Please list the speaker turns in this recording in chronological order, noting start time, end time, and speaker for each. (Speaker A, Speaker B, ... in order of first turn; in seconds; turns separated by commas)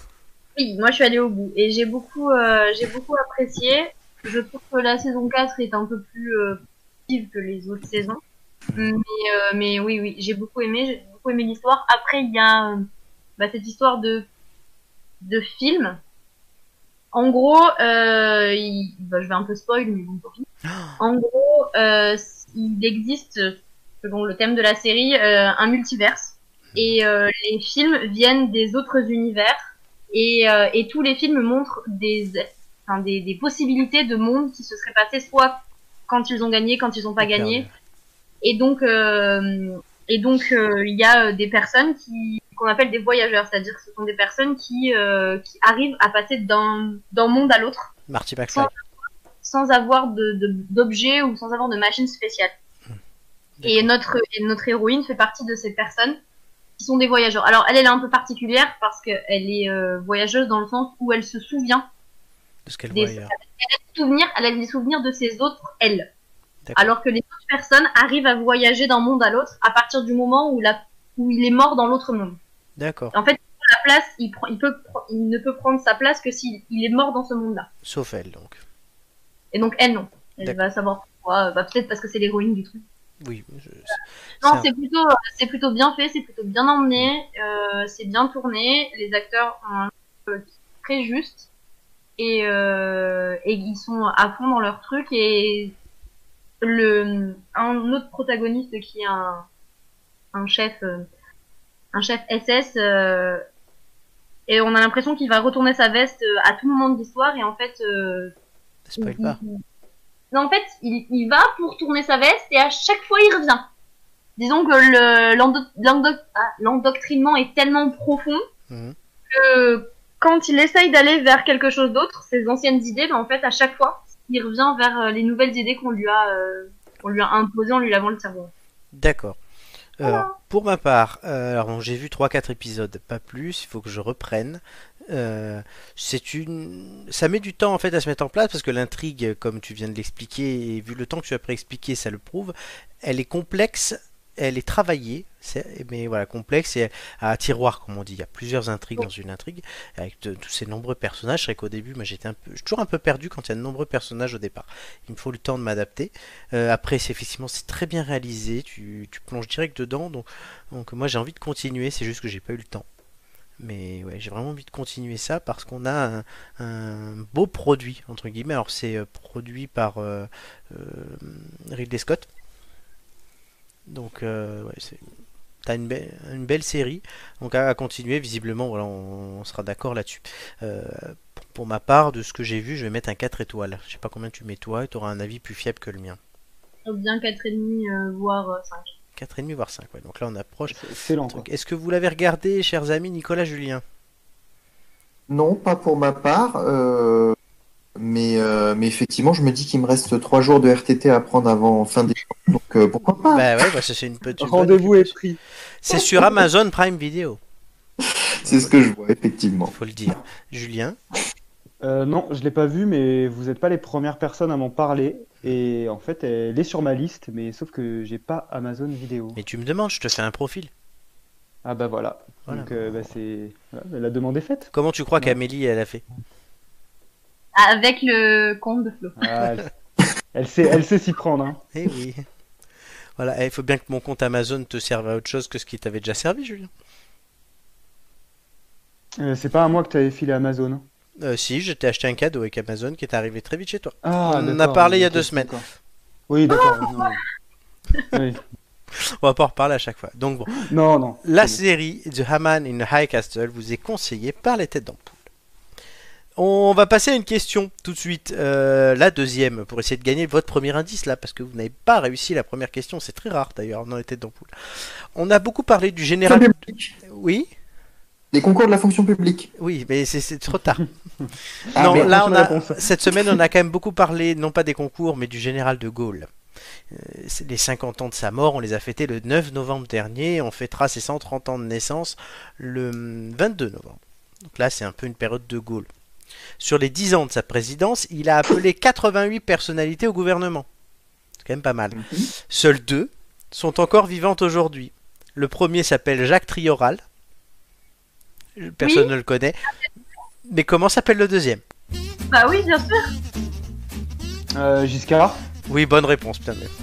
Speaker A: 0.6-8.2, Speaker A: 8.7-12.9, Speaker A: 13.4-14.3, Speaker A: 15.2-16.0, Speaker A: 17.1-20.5, Speaker A: 21.0-37.7, Speaker B: 37.2-37.7, Speaker A: 38.4-47.9, Speaker B: 48.1-48.7, Speaker A: 49.4-52.5, Speaker B: 53.6-53.9, Speaker A: 53.6-56.2, Speaker A: 56.8-61.9, Speaker B: 62.6-63.3, Speaker A: 62.9-66.1, Speaker B: 66.6-66.9, Speaker A: 66.8-72.4, Speaker B: 72.8-73.1, Speaker A: 73.1-77.7, Speaker B: 77.8-78.6, Speaker A: 79.5-82.8, Speaker B: 83.2-84.7, Speaker A: 84.4-91.5, Speaker A: 92.2-95.8, Speaker A: 96.6-99.5, Speaker A: 100.3-101.0, Speaker A: 101.9-103.4, Speaker A: 104.5-108.3, Speaker B: 108.9-109.4, Speaker A: 109.0-109.6, Speaker A: 110.3-113.7, Speaker A: 114.4-118.4, Speaker B: 118.7-118.9, Speaker A: 119.3-128.5, Speaker B: 128.9-129.4, Speaker B: 130.0-162.8, Speaker A: 130.0-130.3, Speaker B: 163.6-172.3, Speaker B: 173.9-175.0, Speaker B: 175.6-186.2, Speaker A: 186.8-188.9, Speaker B: 189.2-193.8, Speaker C: 190.7-191.4, Speaker D: 195.3-197.3, Speaker D: 198.0-203.5, Speaker B: 203.3-205.1, Speaker C: 204.4-205.4, Speaker B: 205.8-207.4, Speaker D: 208.4-209.7, Speaker B: 208.4-208.7, Speaker B: 209.7-211.0, Speaker C: 211.8-219.4, Speaker B: 219.3-220.7, Speaker C: 221.6-225.4, Speaker B: 222.5-222.7, Speaker B: 224.7-226.0, Speaker A: 227.5-229.2, Speaker C: 229.2-229.7, Speaker C: 230.3-231.6, Speaker B: 231.7-232.2, Speaker B: 233.2-236.7, Speaker C: 239.2-240.8, Speaker B: 241.2-245.5, Speaker C: 244.0-245.6, Speaker C: 246.3-247.2, Speaker A: 246.5-247.1, Speaker C: 248.1-248.4, Speaker B: 248.9-250.7, Speaker C: 250.7-251.6, Speaker B: 251.2-255.2, Speaker B: 256.4-266.5, Speaker D: 266.3-266.9, Speaker B: 267.1-267.5, Speaker D: 268.3-269.5, Speaker B: 269.6-270.9, Speaker B: 271.7-276.3, Speaker C: 271.7-272.8, Speaker D: 271.8-272.2, Speaker B: 276.9-285.9, Speaker B: 286.6-290.6, Speaker B: 291.4-297.0, Speaker D: 291.9-292.3, Speaker B: 298.6-299.6, Speaker A: 298.8-299.1, Speaker B: 300.4-301.6, Speaker A: 302.3-303.1, Speaker C: 304.6-305.4, Speaker B: 305.7-306.7